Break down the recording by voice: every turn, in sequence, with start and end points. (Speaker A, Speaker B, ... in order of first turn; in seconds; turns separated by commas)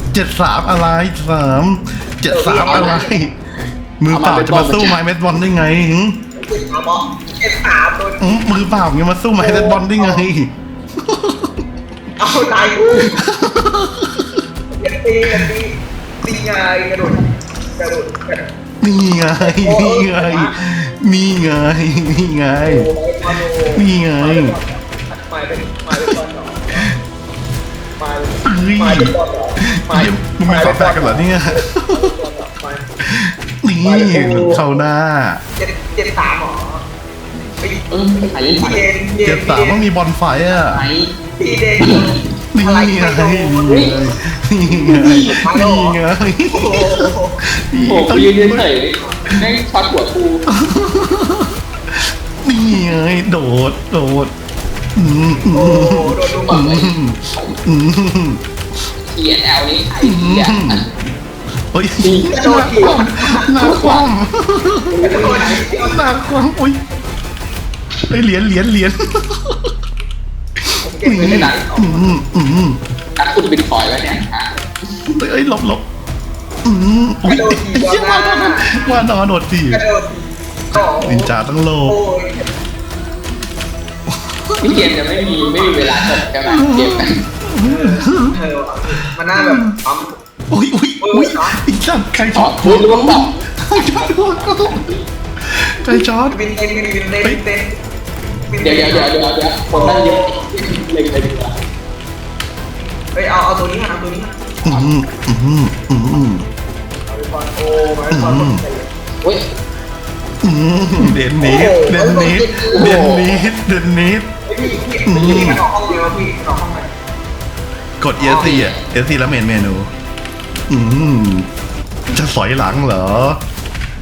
Speaker A: 0.1-3.4, Speaker B: 2.3-3.0, Speaker C: 2.6-3.1, Speaker A: 4.0-6.2, Speaker C: 4.1-5.0, Speaker B: 6.3-8.5, Speaker A: 8.2-10.5, Speaker B: 9.4-10.2, Speaker A: 11.0-11.5, Speaker B: 12.2-13.2, Speaker A: 13.3-14.2, Speaker B: 14.8-18.4, Speaker A: 18.8-22.9, Speaker B: 19.4-20.6, Speaker B: 22.6-26.9, Speaker A: 23.7-24.6, Speaker B: 28.0-32.9, Speaker A: 28.5-29.1, Speaker A: 29.9-32.1, Speaker A: 33.1-35.4, Speaker B: 33.8-34.8, Speaker B: 35.6-36.8, Speaker B: 37.6-39.8, Speaker C: 37.9-38.9, Speaker A: 39.2-40.8, Speaker C: 40.4-41.1, Speaker B: 41.4-44.0, Speaker A: 42.5-48.7, Speaker C: 43.7-44.0, Speaker C: 44.9-45.4, Speaker B: 45.2-46.0, Speaker B: 46.5-47.4, Speaker C: 47.9-50.5, Speaker A: 50.6-51.5, Speaker A: 52.4-54.3, Speaker A: 55.0-58.4, Speaker B: 55.4-56.7, Speaker C: 56.5-57.6, Speaker C: 59.0-60.8, Speaker A: 60.0-60.8, Speaker A: 61.7-65.0, Speaker C: 62.0-64.1, Speaker B: 62.3-63.6, Speaker C: 64.9-65.9, Speaker B: 65.0-66.1, Speaker A: 65.8-66.8, Speaker A: 68.1-69.6, Speaker B: 70.8-72.2, Speaker A: 71.0-72.8, Speaker C: 71.2-71.6, Speaker C: 73.2-75.1, Speaker A: 75.2-75.8, Speaker A: 76.7-79.8, Speaker B: 77.3-79.0, Speaker B: 79.7-81.3, Speaker A: 80.8-82.0, Speaker B: 81.9-82.5, Speaker A: 84.2-84.7, Speaker C: 84.6-87.1, Speaker A: 86.0-88.3, Speaker B: 87.7-90.2, Speaker A: 89.3-89.7, Speaker A: 90.5-94.8, Speaker B: 91.0-91.6, Speaker C: 92.3-95.1, Speaker A: 95.5-96.4, Speaker B: 96.3-97.8, Speaker B: 98.5-100.5, Speaker C: 98.6-101.6, Speaker B: 103.1-104.3, Speaker A: 104.7-106.5, Speaker B: 107.1-108.9, Speaker A: 108.1-108.6, Speaker A: 110.4-114.3, Speaker B: 111.4-113.0, Speaker C: 112.7-113.4, Speaker B: 114.5-116.9, Speaker A: 115.1-115.6, Speaker A: 118.0-119.9, Speaker B: 118.2-118.7, Speaker C: 118.4-118.8, Speaker A: 120.7-121.5, Speaker A: 122.1-123.4